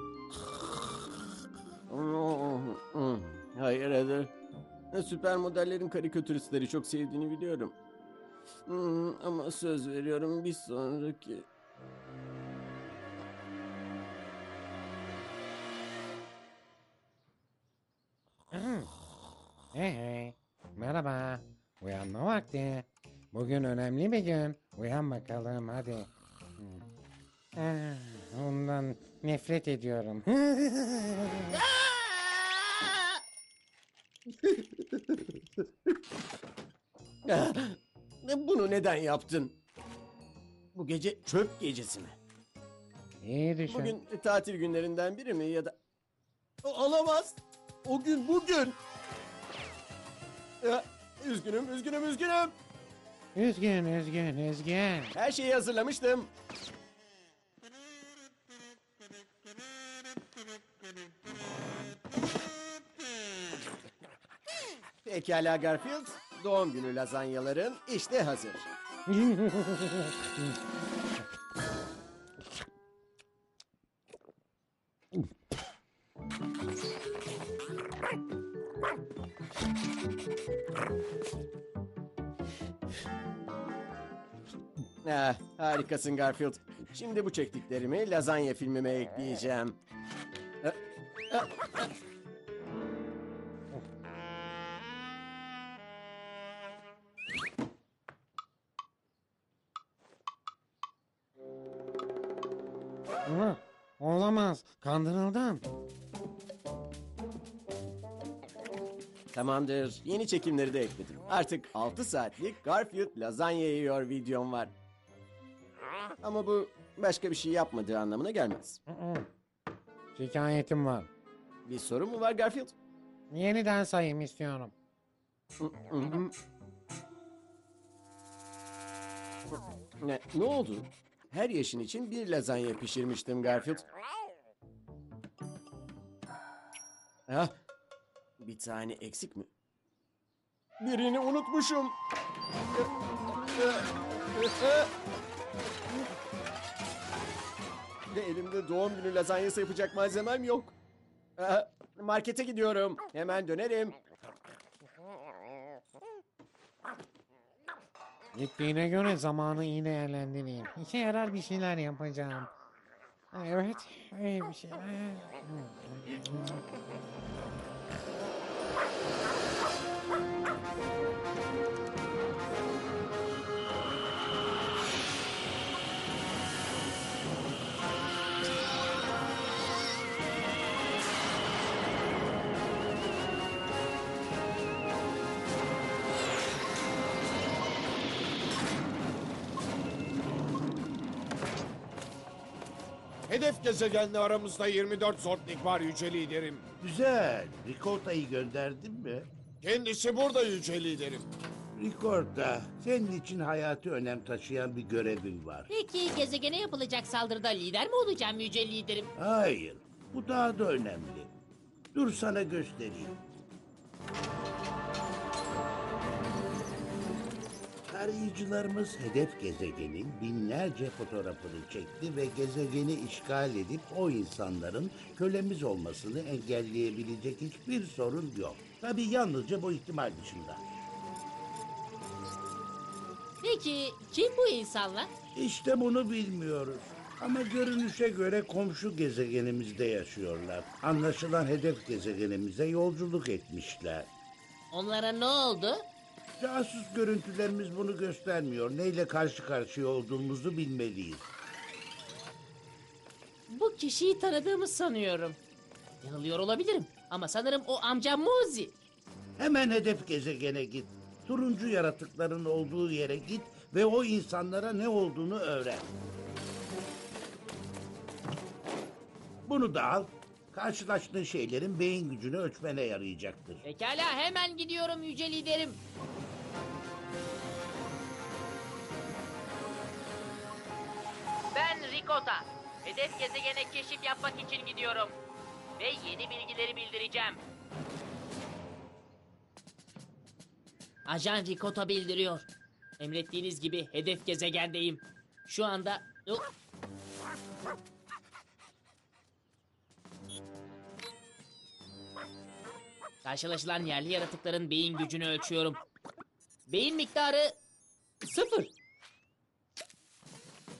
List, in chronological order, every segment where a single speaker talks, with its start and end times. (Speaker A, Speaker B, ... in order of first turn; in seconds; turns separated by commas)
Speaker A: 1.9-4.3, Speaker A: 4.9-7.7, Speaker A: 8.7-11.4, Speaker B: 18.5-18.9, Speaker B: 19.7-26.8, Speaker B: 27.6-31.6, Speaker A: 31.6-32.8, Speaker A: 34.4-35.1, Speaker A: 37.2-39.5, Speaker A: 40.7-42.1, Speaker B: 43.2-43.9, Speaker A: 43.7-45.8, Speaker A: 46.6-48.8, Speaker A: 50.6-52.5, Speaker B: 53.3-55.1, Speaker A: 55.1-56.3, Speaker A: 65.0-68.7, Speaker B: 69.1-70.5, Speaker A: 85.0-89.8, Speaker A: 91.3-91.9, Speaker B: 103.2-105.6, Speaker A: 109.3-114.7, Speaker A: 116.2-118.8, Speaker B: 118.9-119.3, Speaker B: 120.1-121.1, Speaker A: 121.6-122.7, Speaker B: 123.3-124.7, Speaker A: 125.6-126.3, Speaker A: 130.0-133.8, Speaker A: 137.3-137.5, Speaker A: 138.4-139.5, Speaker A: 140.8-141.9, Speaker A: 143.6-144.9, Speaker A: 148.1-150.7, Speaker A: 151.4-154.0, Speaker B: 158.3-162.5, Speaker B: 163.3-166.6, Speaker C: 193.3-196.6, Speaker D: 196.8-199.3, Speaker C: 199.6-201.3, Speaker D: 201.7-205.7, Speaker E: 205.7-209.1, Speaker D: 209.2-211.3, Speaker D: 211.9-213.2, Speaker D: 217.9-230.6, Speaker E: 233.4-235.1, Speaker D: 235.3-244.1, Speaker E: 244.7-245.8, Speaker D: 246.4-251.3, Speaker E: 253.5-255.4, Speaker E: 256.0-258.8, Speaker D: 259.4-265.9, Speaker D: 269.4-273.6, Speaker E: 273.6-275.8, Speaker E: 281.5-285.1, Speaker E: 285.8-287.4, Speaker E: 291.1-296.5, Speaker E: 303.2-305.8, Speaker E: 306.7-307.6, Speaker E: 308.2-308.7